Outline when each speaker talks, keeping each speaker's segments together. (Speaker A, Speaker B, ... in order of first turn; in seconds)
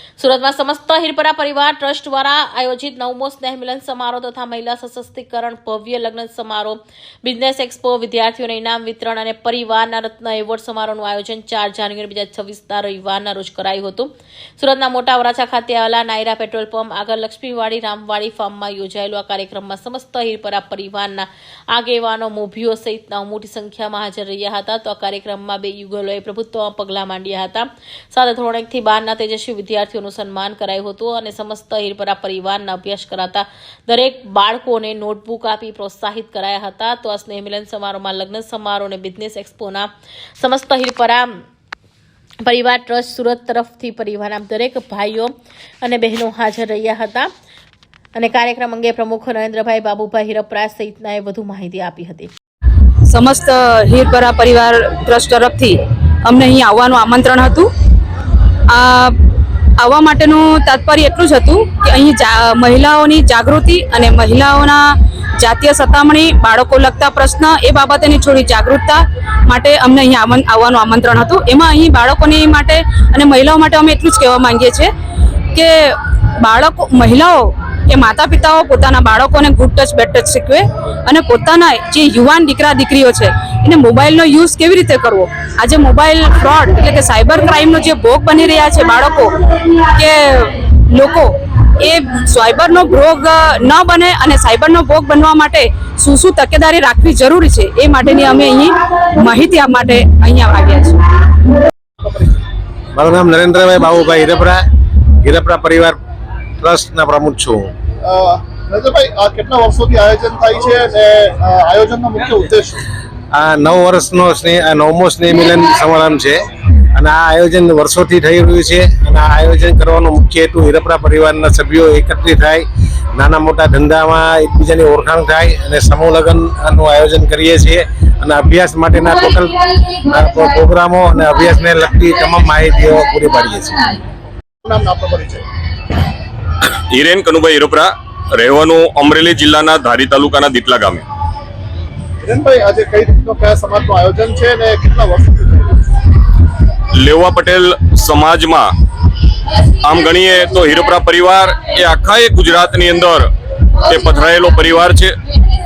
Speaker A: 0.2-41.3, 42.5-45.3, 45.8-47.3, 48.2-52.3
Speaker B: 53.1-57.7, 58.7-59.1, 59.8-64.8, 65.4-74.9, 75.5-101.0
Speaker C: 102.0-102.4, 108.0-112.8, 134.6-135.4, 142.2-145.8
Speaker D: 102.9-104.6, 105.2-106.0, 106.6-107.7, 113.3-133.9
Speaker E: 136.7-141.1, 146.9-148.7, 149.8-153.3, 153.8-155.2